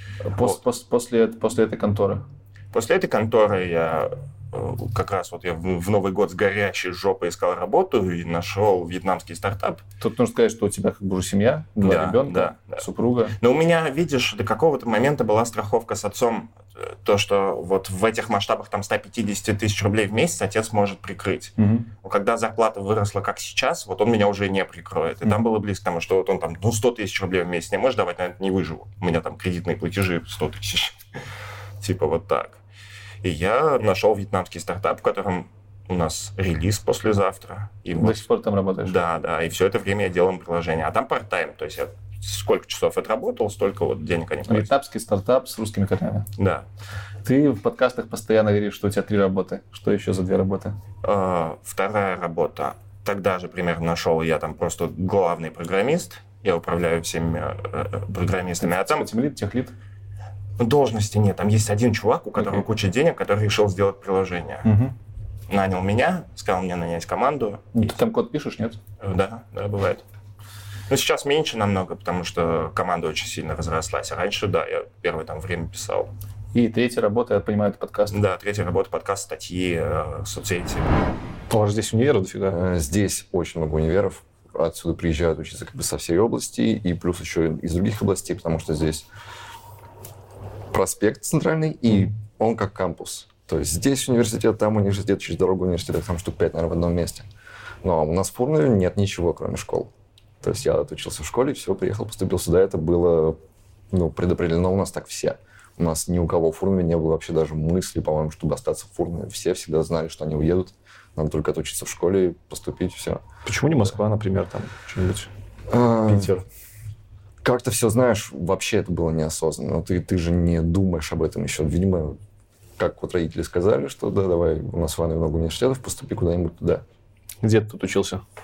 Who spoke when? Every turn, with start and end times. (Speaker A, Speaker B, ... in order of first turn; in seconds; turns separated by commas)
Speaker A: 0.2-2.3, Speaker B: 2.7-9.8, Speaker A: 10.0-13.4, Speaker B: 11.8-12.8, Speaker B: 13.4-31.0, Speaker A: 21.6-21.9, Speaker B: 31.8-32.6, Speaker B: 33.2-38.3, Speaker A: 38.0-39.0, Speaker B: 38.8-44.7, Speaker A: 44.5-46.3, Speaker B: 46.4-46.7, Speaker A: 47.2-50.8, Speaker B: 51.0-59.1, Speaker A: 58.6-59.8, Speaker B: 60.6-64.8, Speaker A: 64.6-65.0, Speaker B: 65.5-68.0, Speaker A: 67.7-68.8, Speaker B: 69.0-70.0, Speaker B: 70.9-76.1, Speaker A: 76.5-78.2, Speaker B: 78.1-80.9, Speaker A: 81.5-82.6, Speaker C: 82.5-89.1, Speaker C: 90.7-97.3, Speaker C: 97.8-103.4, Speaker C: 103.9-113.2, Speaker A: 113.5-115.3, Speaker C: 115.7-116.4, Speaker A: 116.1-116.5, Speaker C: 117.4-122.2, Speaker C: 122.8-126.8, Speaker A: 127.4-128.2